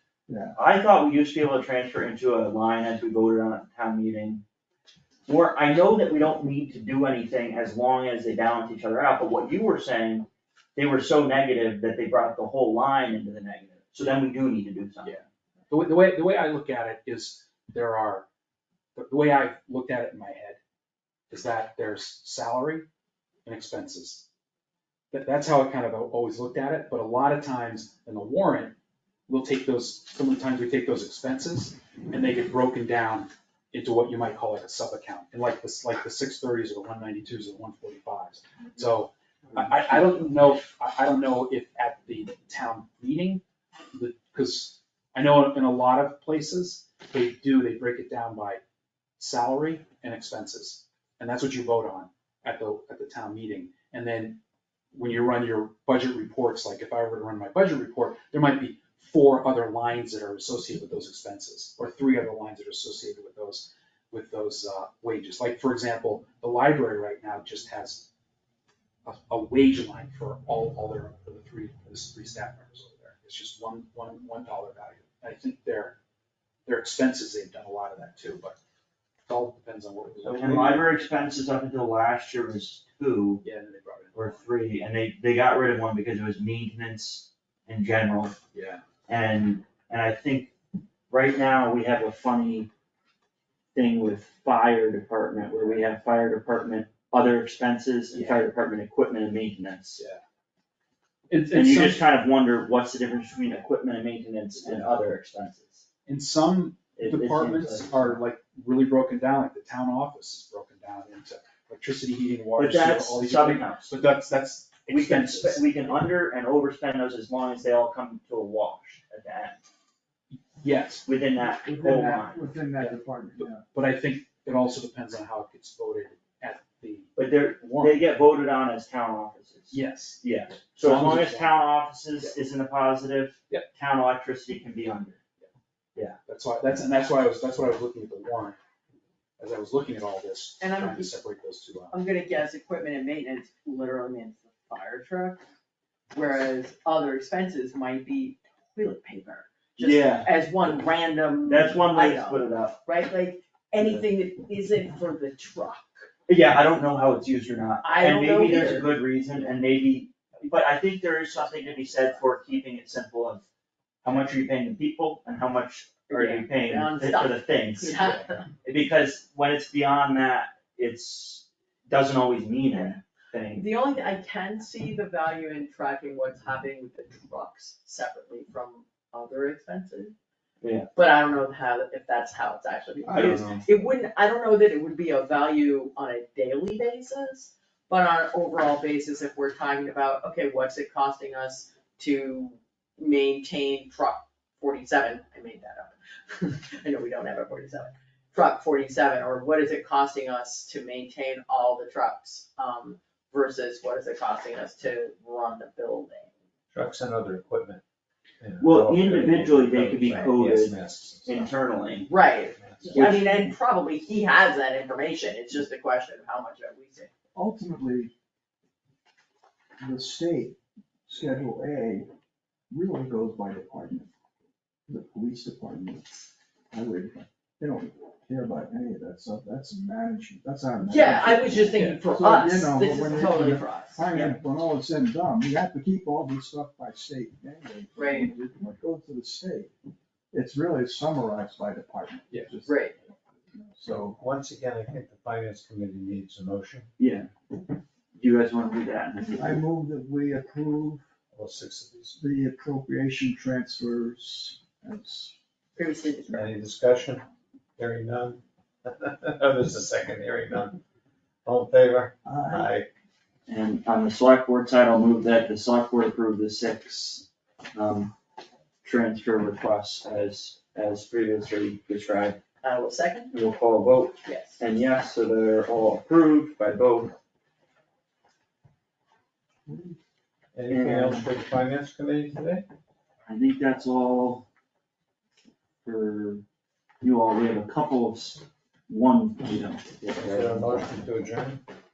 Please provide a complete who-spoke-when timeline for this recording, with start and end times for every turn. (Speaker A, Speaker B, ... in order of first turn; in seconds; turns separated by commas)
Speaker A: 0.3-0.6, Speaker B: 0.6-4.4, Speaker B: 5.3-15.2, Speaker C: 15.0-18.2, Speaker C: 18.9-20.6, Speaker C: 21.3-22.9, Speaker C: 23.4-24.2, Speaker C: 25.1-28.8, Speaker C: 29.3-48.6, Speaker C: 49.2-54.4, Speaker C: 54.9-68.1, Speaker C: 69.0-76.0, Speaker C: 76.7-78.5, Speaker C: 79.3-80.9, Speaker B: 80.2-83.4, Speaker C: 83.4-84.5, Speaker B: 84.1-88.4, Speaker C: 88.5-88.8, Speaker B: 89.1-90.5, Speaker B: 91.1-92.7, Speaker B: 93.7-100.0, Speaker C: 98.1-98.4, Speaker C: 100.0-100.2, Speaker C: 101.3-102.0, Speaker B: 101.5-105.8, Speaker C: 106.0-115.9, Speaker B: 107.0-108.2, Speaker B: 112.6-114.0, Speaker B: 114.9-119.6, Speaker C: 120.3-121.1, Speaker B: 121.0-122.4, Speaker A: 121.5-123.6, Speaker C: 122.8-128.0, Speaker B: 127.2-135.2, Speaker C: 129.7-130.2, Speaker C: 130.8-131.6, Speaker C: 136.2-138.6, Speaker C: 139.4-141.9, Speaker D: 140.6-141.1, Speaker D: 141.9-145.4, Speaker D: 146.1-156.1, Speaker B: 149.8-150.3, Speaker B: 151.5-152.8, Speaker B: 156.3-163.4, Speaker D: 157.8-158.9, Speaker D: 161.4-162.2, Speaker B: 164.0-168.0, Speaker D: 166.1-168.4, Speaker B: 168.6-173.7, Speaker D: 173.5-180.1, Speaker B: 180.6-180.9, Speaker D: 180.9-206.3, Speaker E: 183.0-183.6, Speaker B: 183.2-183.5, Speaker E: 206.7-207.8, Speaker E: 208.4-212.0, Speaker B: 208.6-212.1, Speaker D: 212.1-217.1, Speaker E: 212.5-213.1, Speaker B: 212.9-213.3, Speaker A: 217.3-218.1, Speaker A: 219.8-222.1, Speaker A: 222.7-224.1, Speaker A: 224.9-239.7, Speaker D: 230.9-234.3, Speaker D: 237.9-238.3, Speaker A: 240.3-242.7, Speaker D: 242.7-242.9, Speaker A: 243.8-244.2, Speaker E: 243.9-246.9, Speaker B: 247.0-247.3, Speaker B: 248.1-249.5, Speaker A: 249.4-251.0, Speaker E: 251.3-252.2, Speaker A: 252.2-255.3, Speaker D: 255.8-256.5, Speaker E: 256.3-257.2, Speaker E: 257.8-260.8, Speaker E: 261.4-262.9, Speaker A: 262.2-262.7, Speaker B: 263.5-268.1, Speaker B: 268.8-272.4, Speaker D: 272.6-273.3, Speaker B: 273.3-277.1, Speaker D: 274.2-274.6, Speaker E: 280.5-282.6, Speaker B: 280.7-281.3, Speaker B: 283.3-284.4, Speaker B: 285.8-286.4, Speaker B: 287.0-290.9, Speaker E: 290.1-291.6